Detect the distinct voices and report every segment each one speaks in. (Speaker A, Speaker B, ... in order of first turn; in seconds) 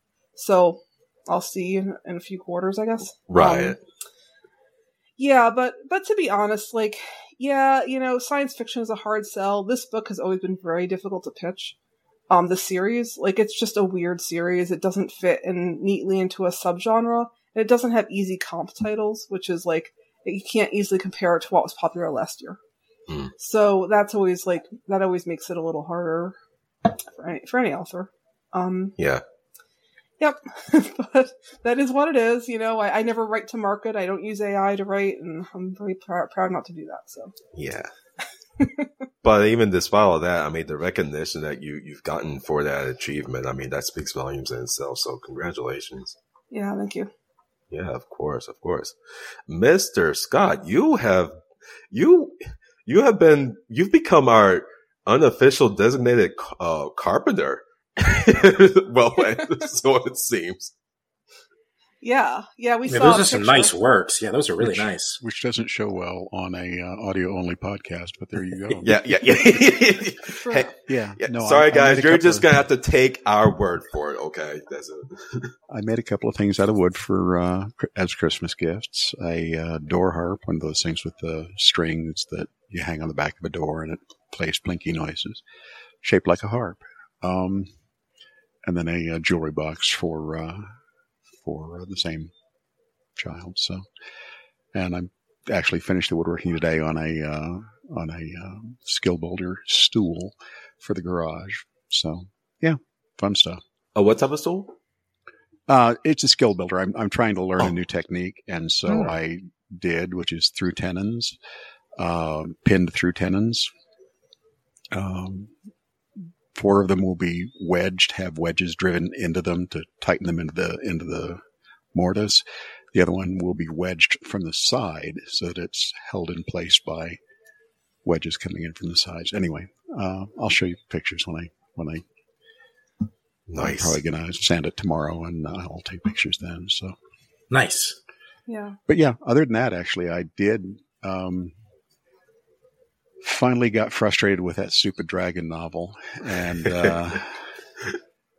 Speaker A: 0.4-3.8, 5.2-11.8, 12.3-22.6, 23.4-26.4, 27.1-28.9, 30.2-37.3, 38.6-38.9, 46.5-47.1, 62.0-63.8, 70.3-70.7, 138.5-138.8
Speaker B: 3.3-3.8, 37.5-37.9, 39.2-46.2, 47.7-49.0, 49.5-51.3, 51.9-60.7, 68.8-75.5, 104.0-104.7, 133.5-134.0
Speaker C: 62.9-65.2, 137.5-138.0
Speaker D: 64.6-69.0, 70.9-72.5, 75.7-85.4, 86.0-87.7, 88.6-90.7, 91.4-92.3, 93.2-93.8, 94.7-103.6, 105.7-111.4, 112.0-113.7, 114.9-115.5, 116.5-121.4, 121.9-127.2, 128.0-132.1, 133.6-136.9, 138.9-141.5, 143.2-147.3